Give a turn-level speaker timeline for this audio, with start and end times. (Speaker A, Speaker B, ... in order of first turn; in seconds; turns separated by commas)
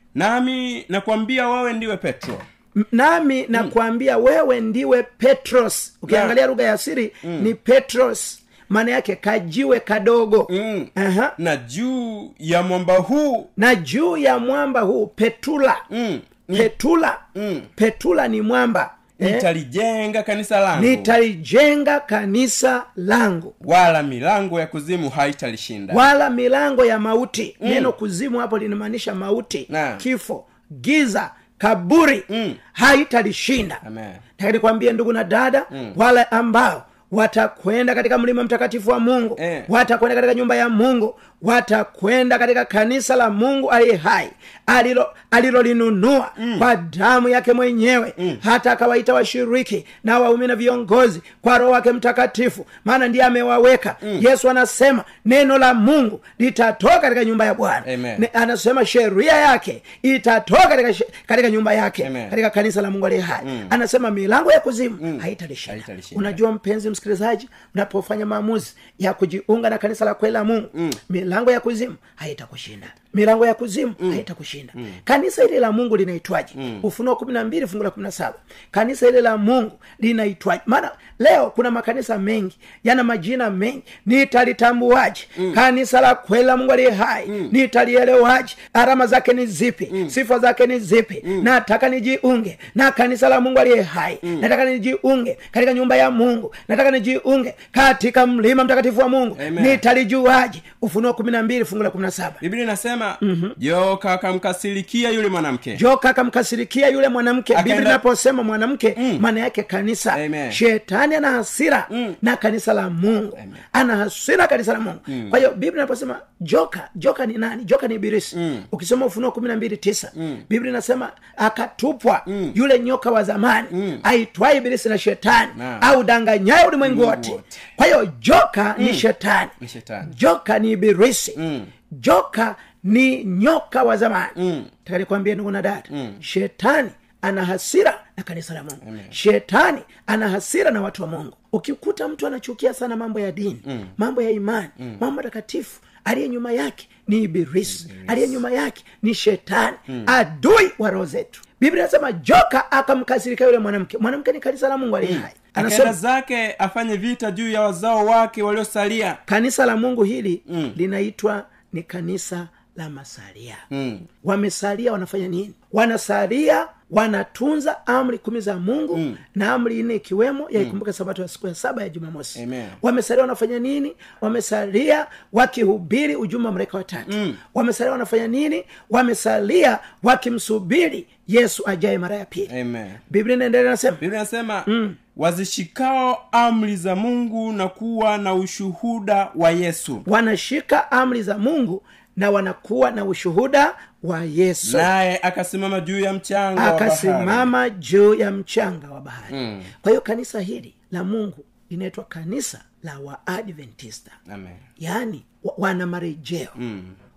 Speaker A: 0.1-2.5, Speaker B: 2.7-11.3, Speaker A: 6.1-6.3, Speaker A: 7.2-7.5, Speaker A: 10.5-13.5, Speaker B: 13.6-15.8, Speaker A: 15.9-16.7, Speaker B: 16.5-17.2, Speaker A: 17.3-17.7, Speaker B: 17.8-19.4, Speaker A: 19.2-21.1, Speaker B: 20.7-23.5, Speaker A: 23.6-26.0, Speaker B: 25.9-33.8, Speaker A: 27.6-27.9, Speaker A: 29.7-30.0, Speaker A: 32.3-32.6, Speaker A: 33.8-34.2, Speaker B: 34.4-102.4, Speaker A: 35.7-36.0, Speaker A: 39.4-39.7, Speaker A: 46.4-46.7, Speaker A: 57.8-58.3, Speaker A: 62.0-62.3, Speaker A: 63.4-63.7, Speaker A: 65.0-66.4, Speaker A: 76.5-76.8, Speaker A: 87.3-87.5, Speaker A: 89.9-90.1, Speaker A: 91.2-91.5, Speaker A: 99.3-99.8, Speaker A: 102.4-105.8, Speaker B: 103.2-103.5, Speaker B: 105.7-131.4, Speaker A: 107.5-108.0, Speaker A: 109.0-109.2, Speaker A: 110.1-110.6, Speaker A: 111.9-112.2, Speaker A: 115.1-115.4, Speaker A: 118.3-118.7, Speaker A: 120.2-120.4, Speaker A: 122.3-122.5, Speaker A: 123.7-124.0, Speaker A: 125.5-125.9, Speaker A: 126.8-127.6, Speaker A: 128.8-129.0, Speaker A: 129.6-130.1, Speaker A: 131.3-131.7, Speaker B: 131.9-155.9, Speaker A: 134.3-134.7, Speaker A: 135.9-136.2, Speaker A: 138.8-139.1, Speaker A: 143.7-143.9, Speaker A: 147.7-148.4, Speaker A: 155.0-159.2, Speaker B: 159.3-163.6, Speaker A: 160.5-160.7, Speaker A: 163.7-164.1, Speaker B: 164.2-182.5, Speaker A: 168.9-169.2, Speaker A: 172.3-172.8, Speaker A: 177.1-177.4, Speaker A: 182.5-183.0, Speaker B: 183.1-184.0, Speaker A: 184.0-190.1, Speaker B: 184.7-185.0, Speaker B: 190.1-194.9, Speaker A: 194.6-197.5, Speaker B: 196.6-204.2, Speaker A: 199.3-199.7, Speaker A: 204.3-204.6, Speaker B: 204.8-206.6, Speaker A: 206.6-207.0